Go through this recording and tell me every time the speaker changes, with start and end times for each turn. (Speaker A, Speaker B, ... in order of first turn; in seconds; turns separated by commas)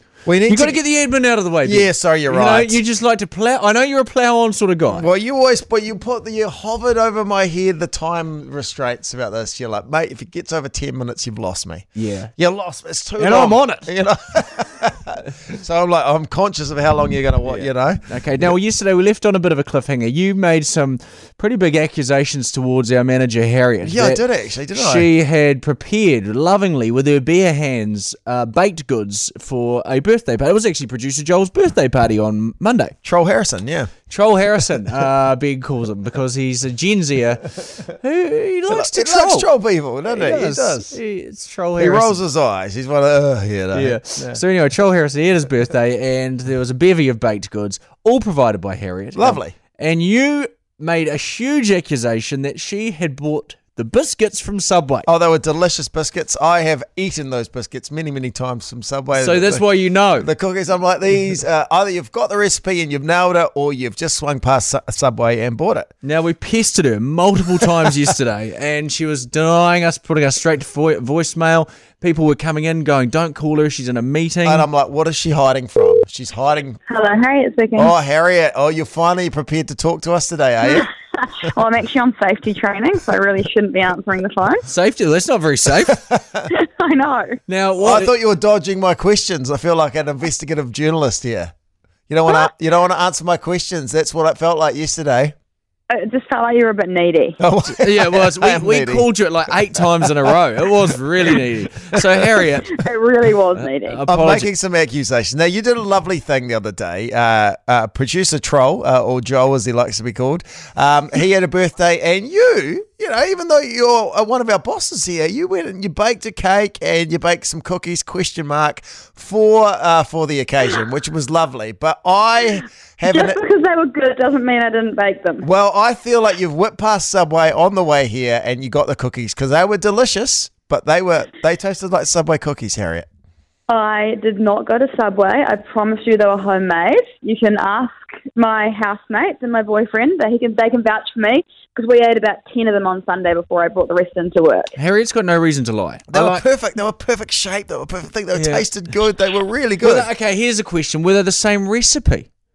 Speaker A: 0.2-0.8, Speaker B: 0.5-5.0, Speaker A: 1.6-2.8, Speaker A: 4.9-18.1, Speaker B: 11.9-12.3, Speaker B: 13.2-13.9, Speaker B: 17.4-24.2, Speaker A: 23.8-25.1, Speaker B: 24.7-32.9, Speaker A: 33.0-34.0, Speaker B: 34.1-39.5, Speaker A: 38.7-41.0, Speaker B: 40.1-42.2, Speaker A: 41.8-44.4, Speaker B: 43.7-55.0, Speaker A: 49.1-49.5, Speaker A: 55.0-59.6, Speaker B: 59.1-60.3, Speaker A: 60.2-65.9, Speaker B: 66.0-74.7, Speaker A: 74.4-76.8, Speaker C: 76.9-77.9, Speaker A: 77.8-80.9, Speaker C: 80.7-84.6, Speaker B: 84.7-86.0, Speaker A: 85.8-86.5, Speaker C: 86.5-87.4, Speaker B: 87.5-88.1, Speaker A: 87.8-91.5, Speaker A: 92.1-95.3, Speaker C: 95.9-97.4, Speaker A: 97.4-99.1, Speaker B: 97.7-102.8, Speaker A: 99.7-100.4, Speaker C: 102.7-104.0, Speaker B: 103.6-104.5, Speaker A: 104.1-123.4, Speaker C: 123.0-125.4, Speaker A: 125.4-133.1, Speaker C: 133.7-144.8, Speaker B: 144.8-146.4, Speaker A: 146.1-150.1, Speaker B: 148.3-148.7, Speaker B: 149.8-152.3